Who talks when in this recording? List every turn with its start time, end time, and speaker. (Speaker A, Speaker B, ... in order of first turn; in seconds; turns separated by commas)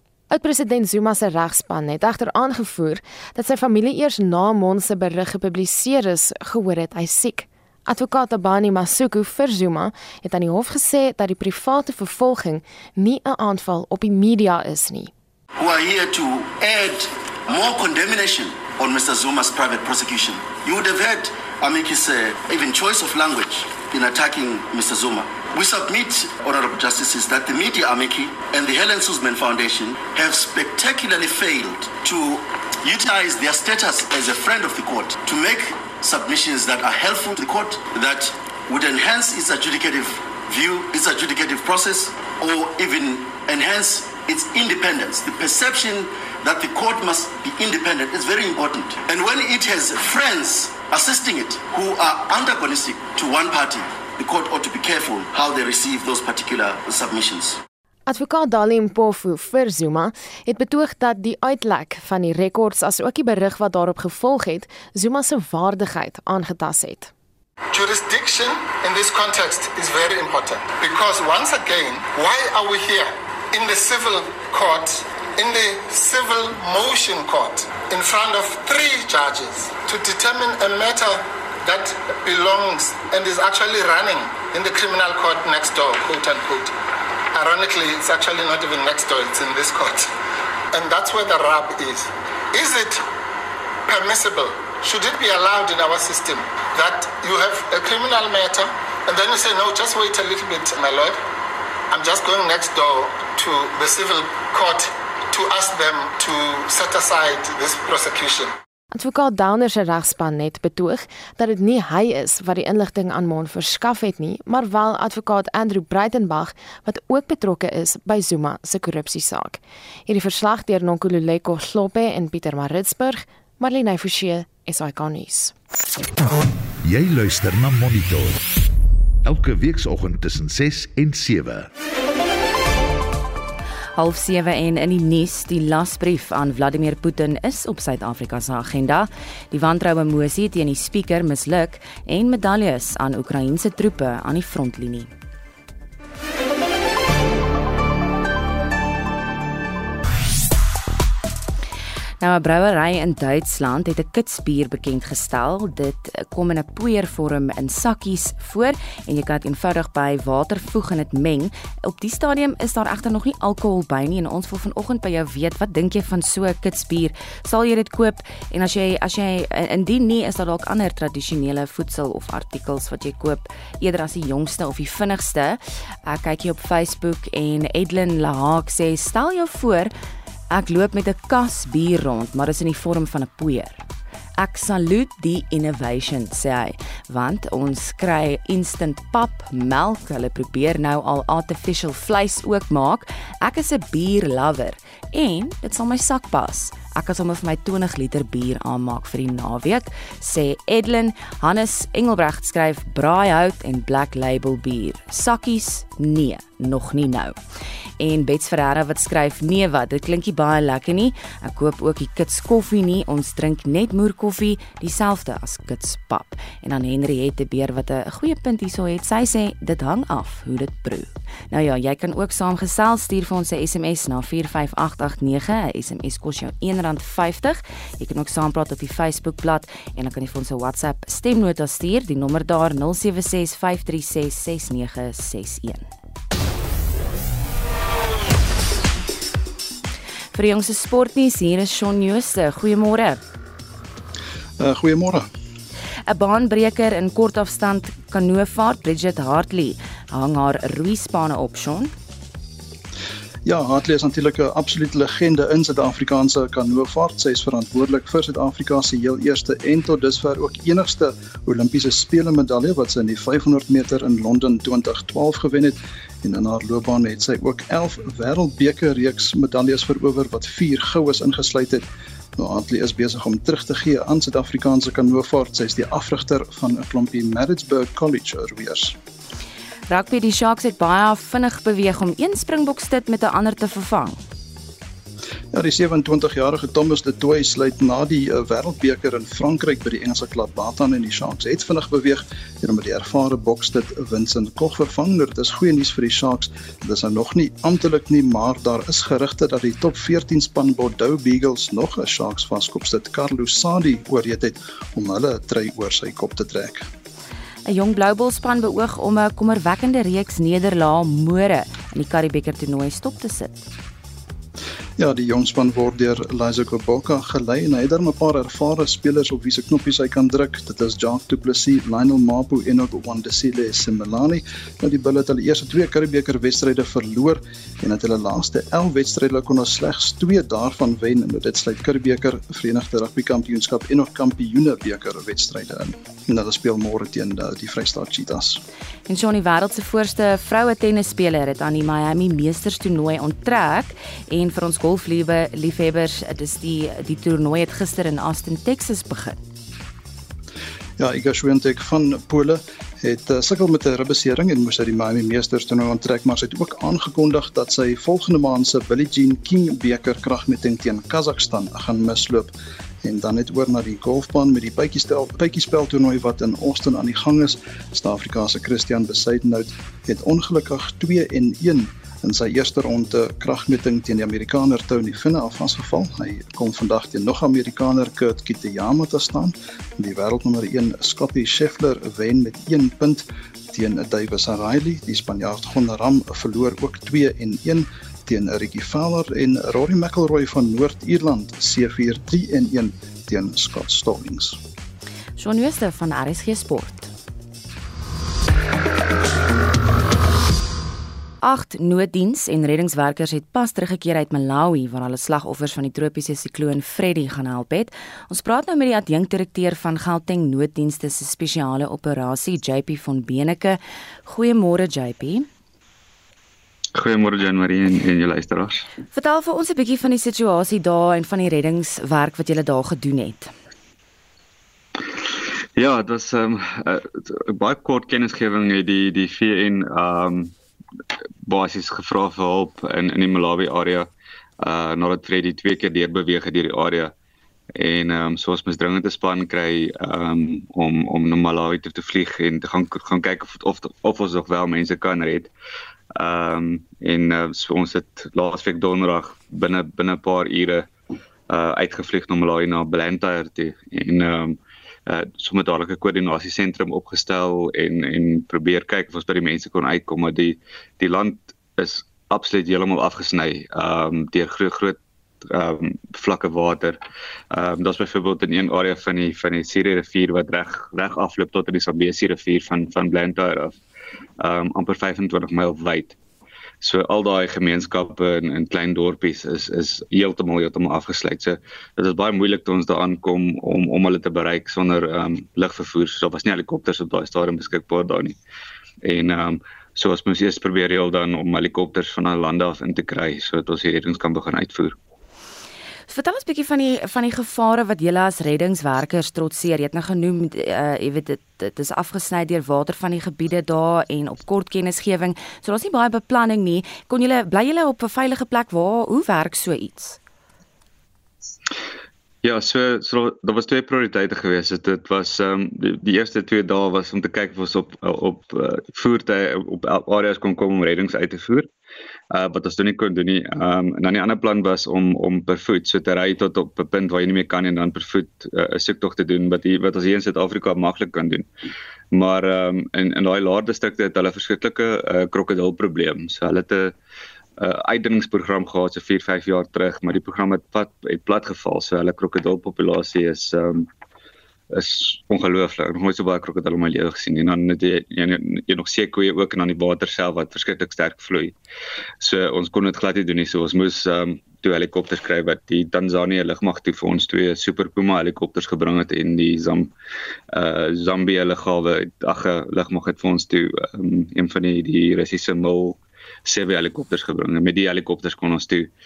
Speaker A: 0.3-15.1, Speaker B: 15.6-57.6, Speaker A: 58.0-67.1, Speaker C: 67.7-86.7, Speaker C: 87.3-90.1, Speaker C: 90.7-93.0, Speaker C: 93.9-101.2, Speaker C: 101.9-108.5, Speaker A: 108.9-125.5, Speaker D: 126.8-128.4, Speaker D: 129.2-131.7, Speaker E: 133.9-145.1, Speaker E: 152.2-179.9, Speaker E: 180.5-183.8, Speaker E: 184.4-207.3, Speaker E: 208.0-235.9, Speaker E: 240.3-243.2, Speaker F: 244.6-245.3, Speaker E: 246.1-251.9, Speaker F: 253.4-271.9, Speaker F: 272.4-278.9, Speaker E: 279.9-284.2, Speaker F: 285.5-306.9, Speaker E: 307.6-313.7, Speaker F: 315.0-338.6, Speaker E: 339.1-349.4, Speaker F: 351.0-394.6, Speaker E: 395.4-397.1, Speaker E: 401.4-415.5, Speaker G: 416.9-418.8, Speaker E: 419.1-423.5, Speaker G: 425.8-430.5, Speaker G: 431.4-434.1, Speaker G: 434.6-437.1, Speaker G: 437.8-445.5, Speaker G: 446.1-450.9, Speaker G: 451.5-467.0, Speaker G: 467.5-473.8, Speaker G: 474.4-476.2, Speaker G: 476.8-488.4, Speaker G: 489.0-494.9, Speaker E: 496.1-510.2, Speaker G: 512.4-521.7, Speaker G: 522.3-531.5, Speaker G: 532.1-536.9, Speaker G: 537.6-543.9, Speaker G: 544.7-551.5, Speaker G: 552.2-559.9, Speaker G: 560.5-568.9